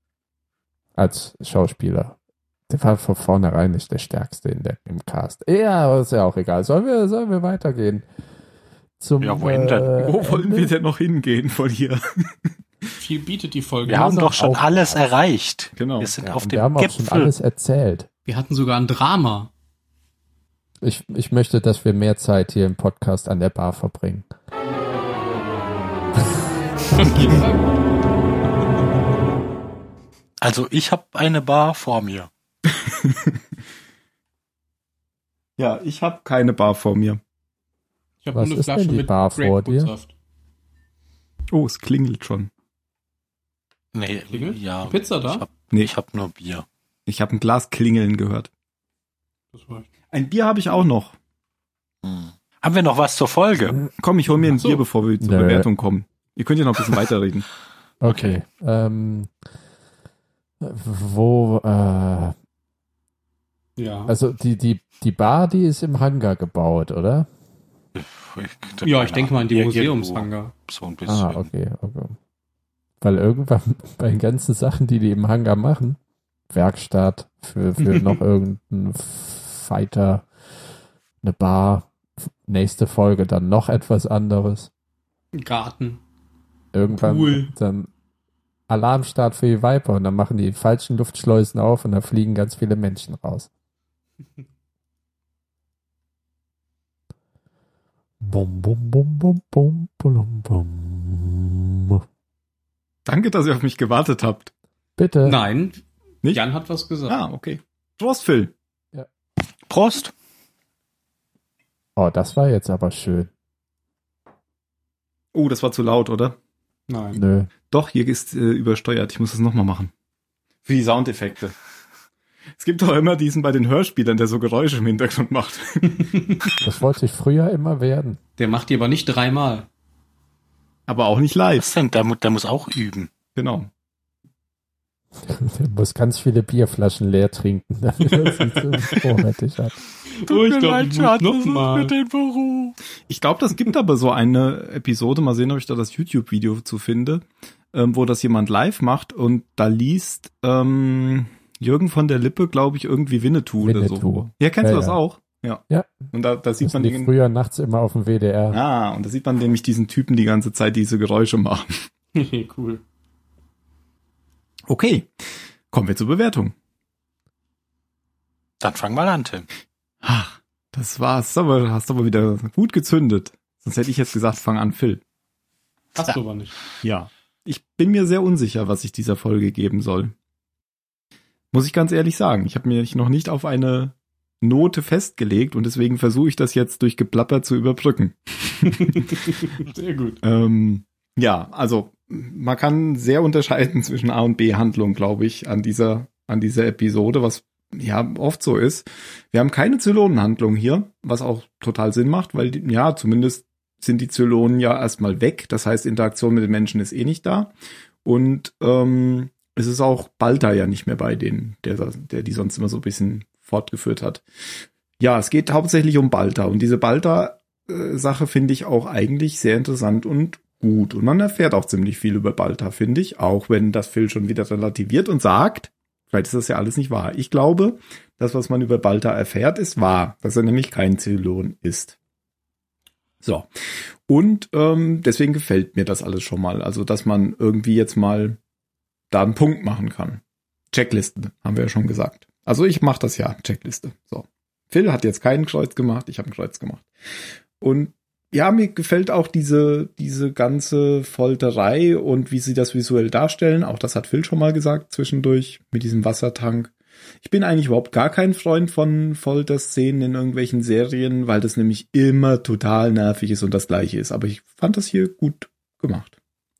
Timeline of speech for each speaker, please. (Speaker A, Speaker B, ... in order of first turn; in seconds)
Speaker A: 1.0-2.2, 2.7-8.1, 9.0-10.7, 16.2-18.1, 20.8-24.2, 38.3-39.9, 55.2-55.7, 58.0-59.3, 60.6-62.3, 64.1-67.3, 71.1-72.2, 73.0-76.0, 76.5-80.3, 81.2-81.9, 82.4-84.7, 86.7-87.9, 88.7-93.5, 98.2-102.0, 105.0-105.4, 112.0-113.3, 117.1-117.5, 126.6-128.2, 135.2-139.8, 153.6-155.0, 155.7-156.1, 156.6-158.6
Speaker B: 9.2-10.0, 13.8-17.3, 30.4-32.3, 43.9-46.6, 52.0-53.8, 58.1-58.4, 67.9-71.5, 109.7-110.1, 131.6-133.1, 140.3-142.8, 168.6-169.5
Speaker C: 10.0-12.0, 15.8-16.1, 32.8-33.4, 35.6-37.2, 41.5-42.5, 47.1-48.5, 50.1-51.1, 54.0-57.5, 103.0-104.5, 107.1-108.5, 115.3-116.4, 117.7-119.9, 120.7-121.6, 122.6-126.0, 130.9-131.7, 133.3-133.7, 143.1-157.1, 158.5-161.9, 164.7-165.1, 165.7-166.5, 170.0-175.0, 176.8-180.1, 181.5-189.1, 190.2-207.5, 208.0-214.2, 215.0-231.9, 234.1-238.4, 239.1-240.2, 240.7-246.9, 247.6-256.7, 257.2-266.1
Speaker D: 13.0-14.7, 18.2-19.5, 26.9-27.6, 38.2-40.1, 44.3-45.4, 49.5-49.9, 63.8-64.1, 68.8-70.5, 77.8-78.2, 85.3-86.0, 86.9-87.5, 105.2-107.2, 116.9-117.2, 126.0-126.4, 128.4-129.7, 140.2-141.9, 162.1-162.8, 175.9-176.5, 188.6-190.2